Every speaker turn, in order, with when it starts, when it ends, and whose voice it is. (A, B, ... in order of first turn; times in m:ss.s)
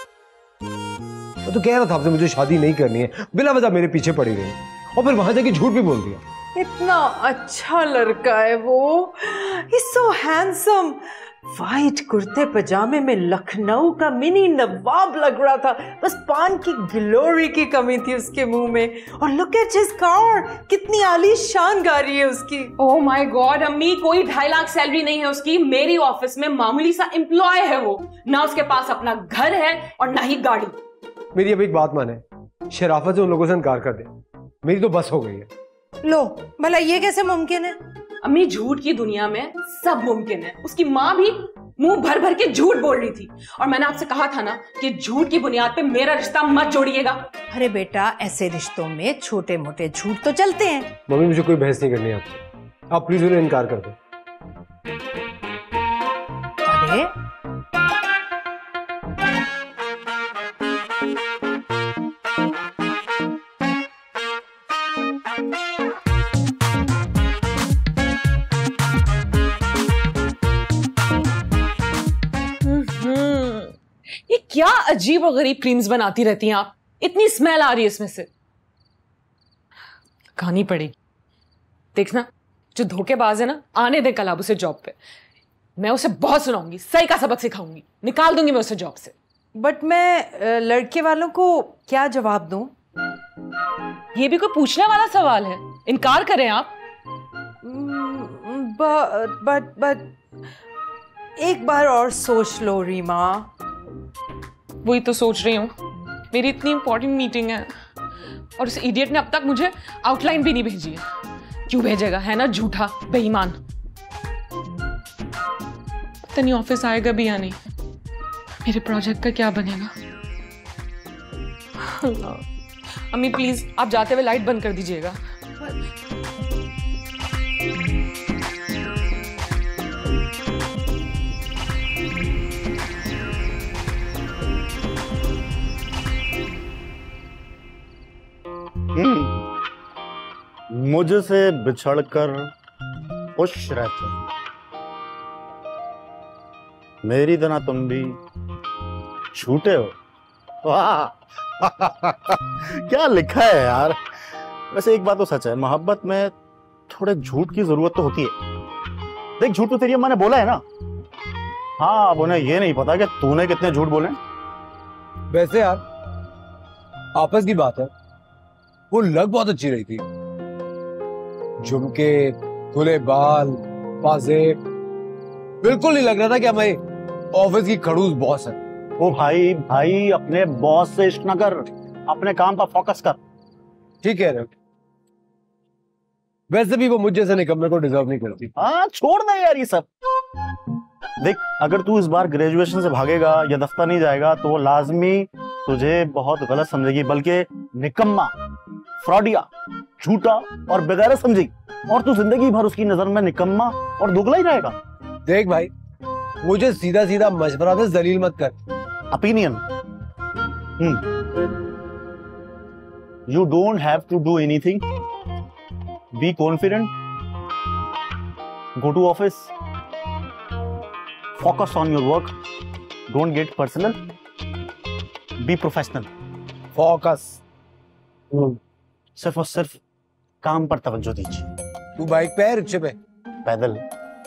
0:01.4-0:06.2 A
0:06.5-0:22.7 B
0:22.8-0:30.7 C
0:31.3-0:34.1 A
0:34.6-0:35.5 A
0:36.0-0:37.8 B
0:38.2-0:47.2 C
0:47.5-0:50.9 B
0:51.1-0:54.0 A
0:56.6-0:57.1 B
1:12.6-1:18.3 C
1:20.4-1:20.9 C
1:21.9-1:25.0 C
1:25.8-1:29.1 C
1:29.6-1:32.7 B
1:34.1-1:36.8 C
1:37.6-1:40.1 B
1:41.4-1:43.5 B
1:44.8-1:45.7 C
1:46.3-1:47.7 C
1:48.6-1:51.0 C
1:51.7-1:53.6 C
1:56.3-1:57.6 C
1:58.6-1:59.9 C
2:01.8-2:02.4 C
2:03.1-2:05.8 C
2:18.9-2:19.3 D
2:20.7-2:22.5 D
2:23.4-2:24.2 D
2:27.0-2:28.2 D
2:29.3-2:30.0 D
2:30.6-2:34.0 D
2:34.7-2:36.3 D
2:36.9-2:38.3 D
2:39.4-2:40.6 D
2:41.8-2:44.2 D
2:45.3-2:45.8 A
2:47.1-2:47.9 A
2:48.9-2:50.0 A
2:51.6-2:54.6 A
2:55.6-2:56.8 A
2:57.3-2:58.6 A
2:59.0-3:03.2 D
3:04.0-3:04.5 A
3:06.5-3:08.5 A
3:08.6-3:09.9 D
3:11.2-3:18.3 D
3:19.0-3:19.5 D
3:20.0-3:24.8 D
3:25.2-3:25.7 A
3:26.4-3:28.6 A
3:29.1-3:29.6 D
3:33.3-3:34.8 D
3:36.1-3:36.9 D
3:38.8-3:39.5 D
3:41.4-3:42.3 D
3:43.1-3:44.0 D
3:45.4-3:46.1 D
3:46.7-3:47.4 A
3:48.3-3:48.6 A
3:49.2-3:49.8 D
3:50.4-3:51.5 D
3:52.0-3:53.0 A
3:53.4-3:53.8 D